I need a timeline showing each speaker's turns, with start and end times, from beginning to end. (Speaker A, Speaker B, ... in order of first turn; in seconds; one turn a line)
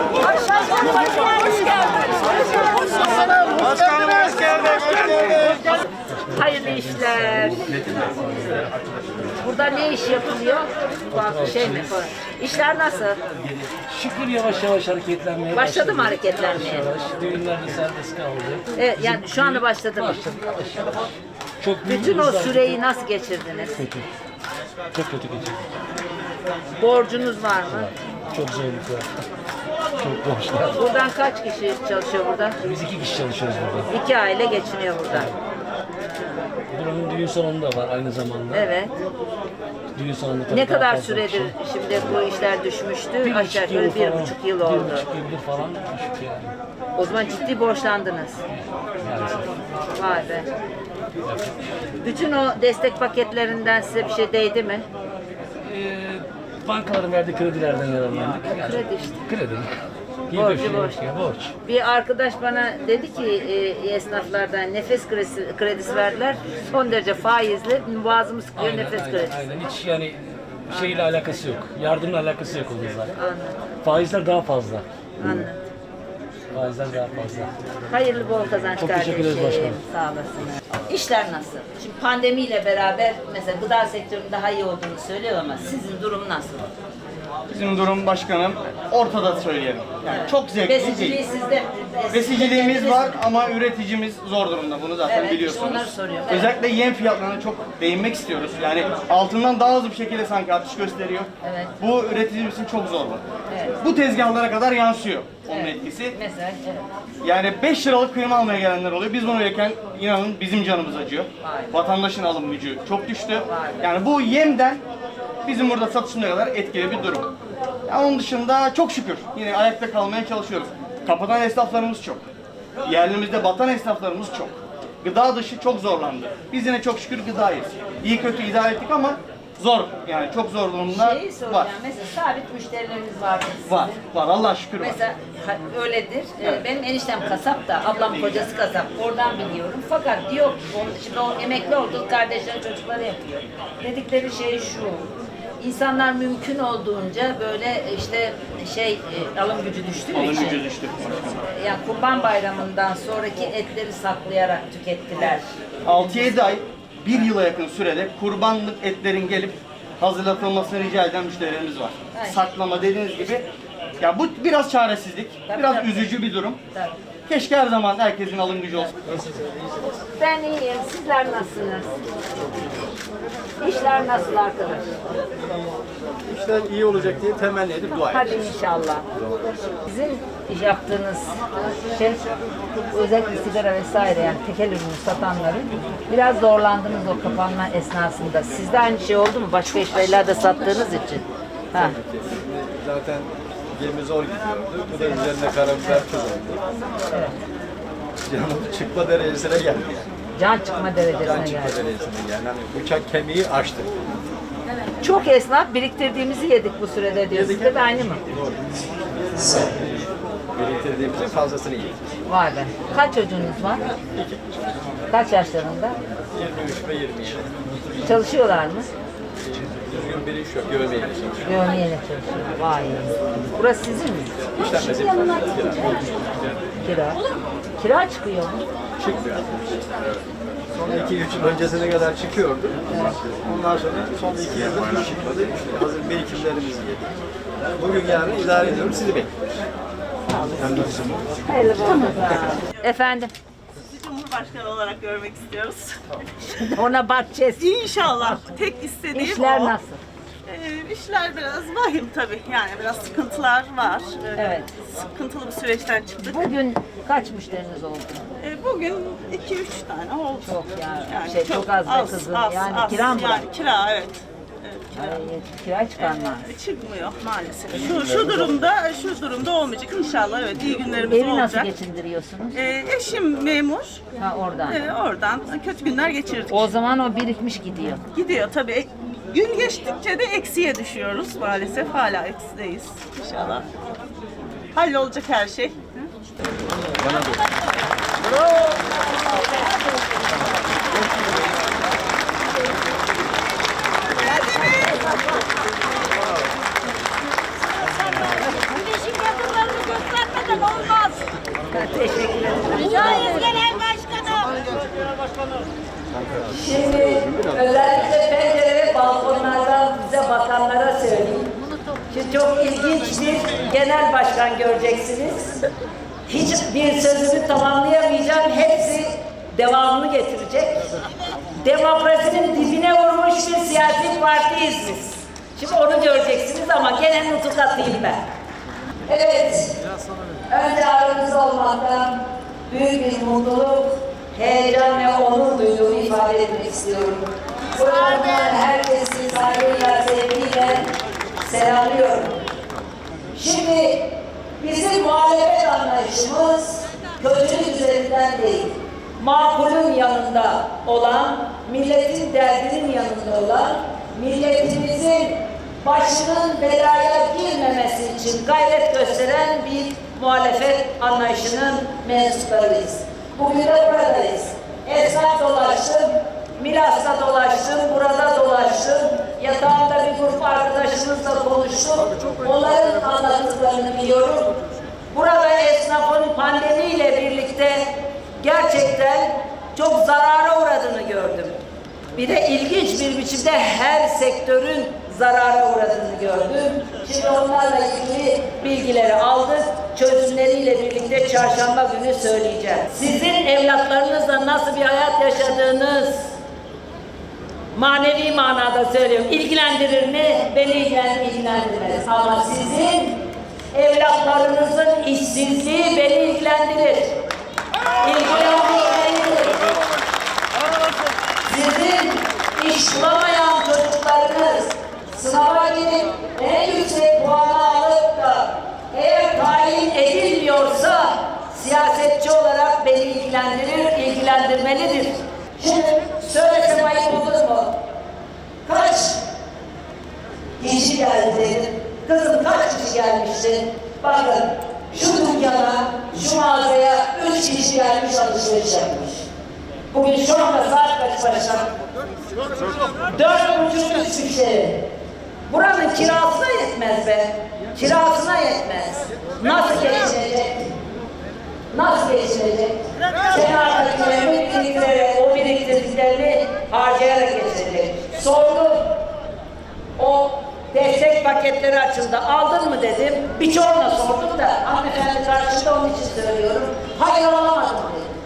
Speaker A: 5.1-5.4
Speaker B: 5.4-5.8
Speaker A: 6.0-8.7
Speaker B: 6.3-7.7
Speaker B: 9.4-13.2
Speaker A: 11.1-11.9
Speaker A: 13.9-21.1
Speaker B: 15.5-16.9
Speaker B: 18.8-20.3
Speaker A: 21.6-22.8
Speaker B: 21.8-23.8
Speaker A: 23.8-24.1
Speaker A: 24.9-25.6
Speaker B: 26.8-27.9
Speaker A: 27.7-29.1
Speaker A: 30.0-30.8
Speaker B: 30.7-32.6
Speaker A: 32.6-33.9
Speaker B: 33.9-35.3
Speaker A: 36.7-38.6
Speaker B: 38.5-38.9
Speaker A: 40.0-41.5
Speaker B: 40.5-45.1
Speaker A: 43.2-46.5
Speaker B: 47.0-48.4
Speaker A: 48.5-49.5
Speaker B: 49.9-50.5
Speaker A: 51.2-51.5
Speaker B: 52.0-54.9
Speaker A: 55.7-59.7
Speaker B: 58.4-59.2
Speaker A: 60.3-61.5
Speaker B: 60.3-61.0
Speaker B: 61.6-69.4
Speaker A: 68.5-73.1
Speaker B: 70.7-71.0
Speaker B: 73.2-73.6
Speaker A: 73.8-75.4
Speaker B: 75.2-75.6
Speaker A: 76.5-77.5
Speaker B: 77.9-86.7
Speaker A: 78.8-79.8
Speaker C: 87.5-91.2
Speaker B: 90.1-93.2
Speaker C: 92.1-101.3
Speaker B: 95.0-96.5
Speaker B: 101.4-101.7
Speaker C: 101.8-103.2
Speaker B: 103.5-103.8
Speaker C: 103.8-106.1
Speaker B: 105.5-106.8
Speaker C: 107.2-114.8
Speaker B: 111.4-111.7
Speaker B: 113.4-113.9
Speaker C: 115.4-117.3
Speaker C: 117.9-122.2
Speaker C: 122.8-131.7
Speaker B: 130.9-134.0
Speaker C: 133.7-135.0
Speaker B: 134.8-145.1
Speaker C: 138.0-138.5
Speaker B: 145.6-150.6
Speaker C: 150.1-151.4
Speaker B: 151.5-155.5
Speaker C: 155.8-163.5
Speaker B: 162.1-162.4
Speaker C: 164.0-166.6
Speaker B: 165.5-166.9
Speaker C: 167.3-169.2
Speaker B: 170.1-171.9
Speaker B: 173.6-174.9
Speaker D: 176.3-178.0
Speaker B: 178.1-179.1
Speaker B: 179.8-182.2
Speaker B: 182.9-191.9
Speaker D: 191.7-196.6
Speaker B: 197.1-197.3
Speaker D: 198.3-200.0
Speaker B: 200.4-201.8
Speaker D: 201.2-203.9
Speaker B: 205.0-208.2
Speaker D: 207.3-208.6
Speaker D: 209.2-212.0
Speaker B: 212.3-213.8
Speaker D: 214.1-214.4
Speaker B: 215.1-216.0
Speaker D: 216.3-217.6
Speaker B: 218.0-218.9
Speaker D: 219.8-221.5
Speaker B: 221.4-224.3
Speaker D: 224.5-226.2
Speaker B: 226.8-227.2
Speaker B: 227.8-228.6
Speaker D: 229.0-229.9
Speaker D: 230.8-237.1
Speaker D: 237.8-239.3
Speaker D: 240.6-241.2
Speaker B: 241.4-243.3
Speaker E: 243.9-246.0
Speaker B: 246.6-248.4
Speaker E: 247.6-249.7
Speaker B: 249.1-250.0
Speaker E: 250.5-256.4
Speaker B: 254.3-254.7
Speaker B: 256.2-258.3
Speaker E: 258.4-260.5
Speaker B: 260.4-263.5
Speaker E: 261.1-265.2
Speaker B: 264.9-266.4
Speaker E: 266.0-271.7
Speaker B: 271.1-272.5
Speaker E: 272.5-274.0
Speaker B: 274.2-274.8
Speaker E: 274.6-276.6
Speaker B: 276.5-278.0
Speaker E: 278.1-283.7
Speaker E: 284.7-286.1
Speaker B: 301.7-303.6
Speaker B: 306.5-311.5
Speaker B: 312.1-315.5
Speaker B: 316.3-320.9
Speaker B: 321.5-328.2
Speaker B: 329.1-329.7
Speaker B: 330.5-332.2
Speaker B: 332.7-342.4
Speaker B: 343.3-344.1
Speaker B: 344.6-374.5
Speaker B: 375.1-377.8
Speaker B: 378.4-381.6
Speaker B: 382.1-396.3
Speaker B: 397.7-403.2
Speaker B: 403.7-407.1
Speaker B: 408.0-409.6
Speaker B: 411.5-427.7
Speaker B: 428.6-429.2
Speaker B: 430.6-439.3
Speaker B: 439.9-441.7
Speaker B: 443.0-444.8
Speaker B: 445.5-450.7
Speaker B: 451.7-458.8
Speaker B: 460.0-468.1